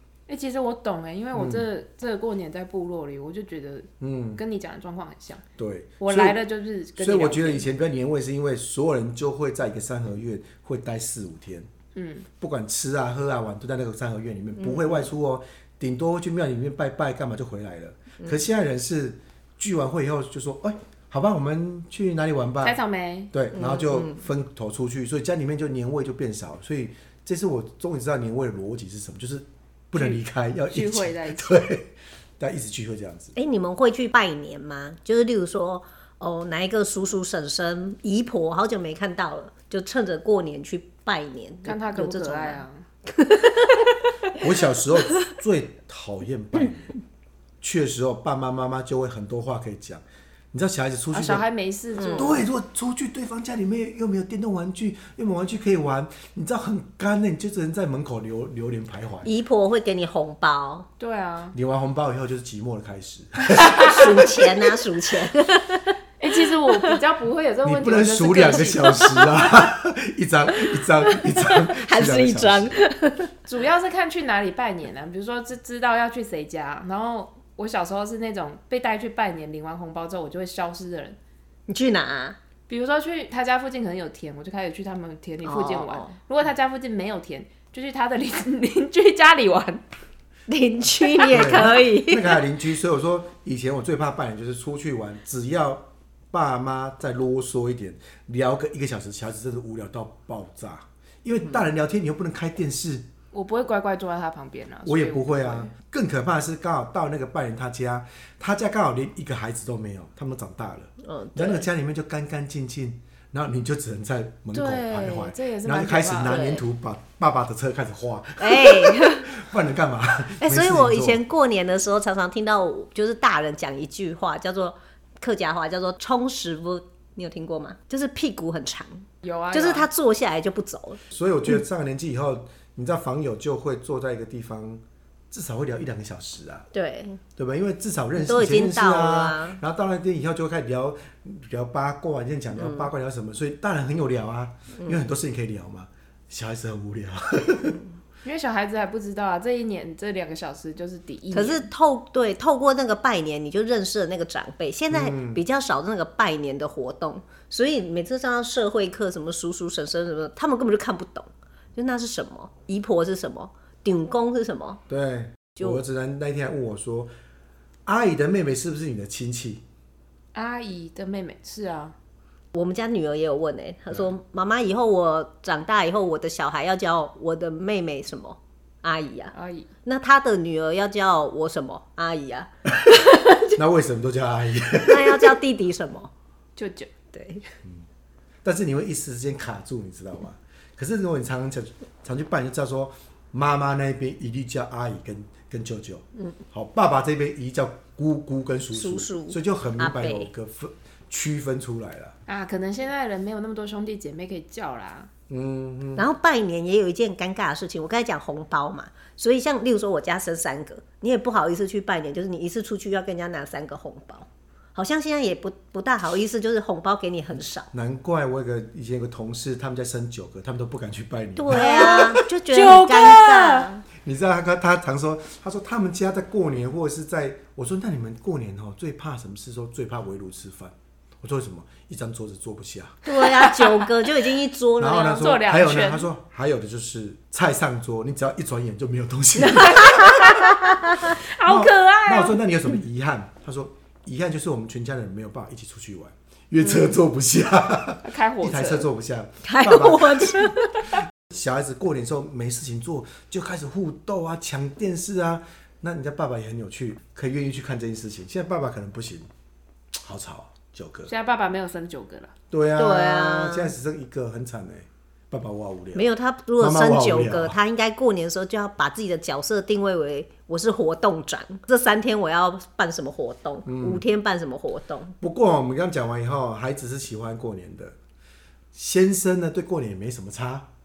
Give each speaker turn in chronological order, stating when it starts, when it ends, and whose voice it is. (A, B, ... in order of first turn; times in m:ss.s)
0:00.3-0:05.4 A
0:01.3-0:01.7 B
0:04.0-0:04.4 B
0:05.6-0:06.4 B
0:06.0-0:07.7 A
0:07.0-0:11.7 B
0:12.0-0:12.3 A
0:12.4-0:22.8 B
0:14.6-0:15.0 C
0:22.6-0:23.3 A
0:23.3-0:33.3 B
0:23.5-0:24.2 C
0:30.0-0:31.6 A
0:33.4-0:44.4 C
0:41.6-0:42.8 A
0:44.4-0:46.9 B
0:47.6-0:51.4 B
0:51.1-0:52.4 A
0:52.0-0:52.3 C
0:52.2-0:59.3 B
0:59.2-1:00.9 C
1:01.0-1:01.6 A
1:01.5-1:04.2 B
1:03.7-1:06.0 C
1:06.2-1:09.2 A
1:06.7-1:07.0 C
1:07.6-1:12.8 B
1:11.0-1:13.3 C
1:13.5-1:21.2 A
1:21.7-1:22.4 C
1:22.7-1:29.8 A
1:25.4-1:26.2 C
1:30.5-1:32.4 C
1:31.3-1:43.1 B
1:43.3-1:45.7 A
1:44.9-2:01.2 B
1:51.0-1:51.6 C
1:54.5-1:56.6 A
1:56.2-1:56.6 C
1:58.4-1:59.3 C
2:00.4-2:11.0 C
2:09.2-2:09.9 A
2:11.1-2:16.7 B
2:16.7-2:17.2 C
2:17.4-2:27.8 B
2:18.2-2:19.6 C
2:22.6-2:22.9 C
2:28.2-2:31.7 A
2:31.3-2:44.8 C
2:34.9-2:35.4 B
2:44.9-2:47.1 B
2:47.9-2:49.6 B
2:50.3-2:52.0 A
2:52.5-2:59.3 C
2:59.3-2:59.7 A
2:59.8-3:03.6 C
3:03.6-3:05.4 B
3:04.8-3:06.1 C
3:06.6-3:06.9 A
3:07.1-3:07.4 C
3:08.4-3:22.2 B
3:18.7-3:20.3 C
3:22.3-3:25.1 A
3:25.3-3:26.1 B
3:26.0-3:37.7 C
3:37.7-3:42.2 B
3:41.4-3:43.8 C
3:41.5-3:43.7 A
3:44.0-3:53.0 B
3:53.0-3:55.3 C
3:53.2-3:54.0 A
3:54.8-4:00.3 B
3:55.1-3:56.1 A
3:59.5-4:01.2 C
3:59.8-4:00.4 A
4:01.1-4:02.4 A
4:01.4-4:19.3 B
4:08.0-4:08.9 A
4:09.4-4:10.9 C
4:20.0-4:21.1 B
4:21.1-4:22.3 A
4:22.5-4:27.6 B
4:22.8-4:23.7 C
4:26.0-4:35.2 C
4:33.7-4:34.0 B
4:35.2-4:38.0 B
4:38.7-4:40.7 B